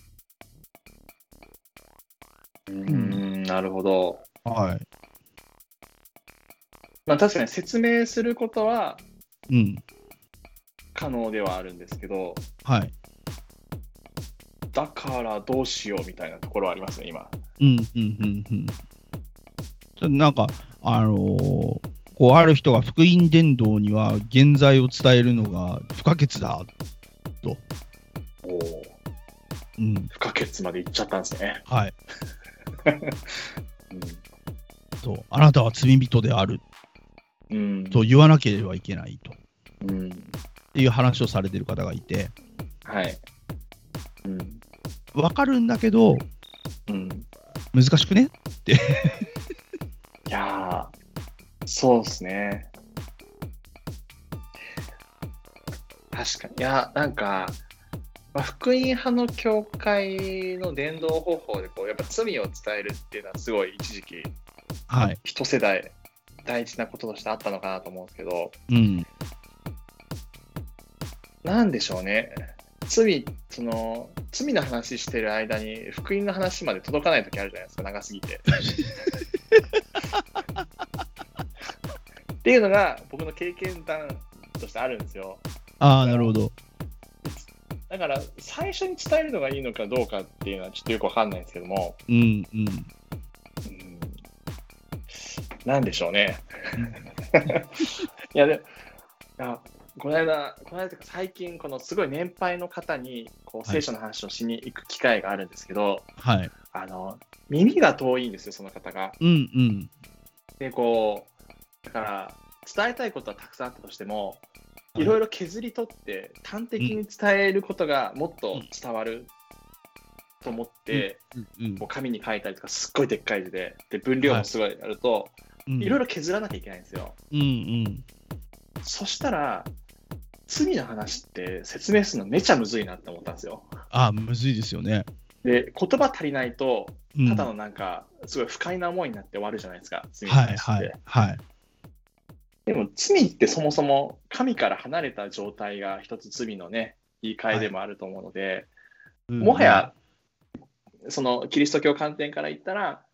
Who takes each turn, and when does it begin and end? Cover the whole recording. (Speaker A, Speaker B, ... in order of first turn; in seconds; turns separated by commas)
Speaker A: 2.7-4.2, Speaker B: 2.9-3.2, Speaker B: 4.5-4.8, Speaker A: 7.1-9.0, Speaker B: 9.5-9.8, Speaker A: 10.9-12.4, Speaker B: 12.7-12.9, Speaker A: 14.7-17.4, Speaker B: 17.6-18.7, Speaker B: 20.0-26.7, Speaker A: 28.4-29.0, Speaker B: 29.8-30.1, Speaker A: 30.1-31.6, Speaker B: 31.7-31.9, Speaker A: 32.9-33.3, Speaker A: 33.9-34.2, Speaker B: 35.0-36.6, Speaker A: 37.5-38.0, Speaker B: 37.9-39.4, Speaker A: 39.8-40.4, Speaker B: 40.7-42.3, Speaker A: 42.9-43.2, Speaker A: 44.2-44.6, Speaker B: 45.1-46.2, Speaker A: 46.9-47.3, Speaker B: 47.7-49.2, Speaker A: 50.3-50.9, Speaker A: 51.7-52.7, Speaker A: 56.1-57.6, Speaker A: 58.3-64.3, Speaker B: 64.9-65.2, Speaker A: 65.2-68.6, Speaker B: 68.7-69.1, Speaker A: 71.4-78.6, Speaker B: 78.7-78.9, Speaker A: 82.4-85.4, Speaker B: 85.8-86.5, Speaker A: 86.0-86.3, Speaker A: 87.2-92.0, Speaker B: 92.1-92.9, Speaker A: 93.7-94.2, Speaker A: 95.2-98.7, Speaker B: 96.8-97.5, Speaker A: 99.4-106.1, Speaker B: 106.2-106.5, Speaker A: 106.7-109.2, Speaker B: 109.2-109.9, Speaker A: 110.6-111.3, Speaker A: 111.8-114.4, Speaker A: 115.0-119.3, Speaker A: 120.4-121.2, Speaker B: 120.9-121.8, Speaker A: 121.8-127.2, Speaker B: 125.7-126.0, Speaker B: 127.3-128.0, Speaker A: 128.8-129.7, Speaker A: 130.5-133.7, Speaker B: 133.9-135.1, Speaker A: 135.4-141.0, Speaker B: 137.1-137.5, Speaker B: 140.3-141.4, Speaker A: 142.7-148.7, Speaker B: 149.3-149.9, Speaker A: 149.4-149.9, Speaker A: 151.1-153.1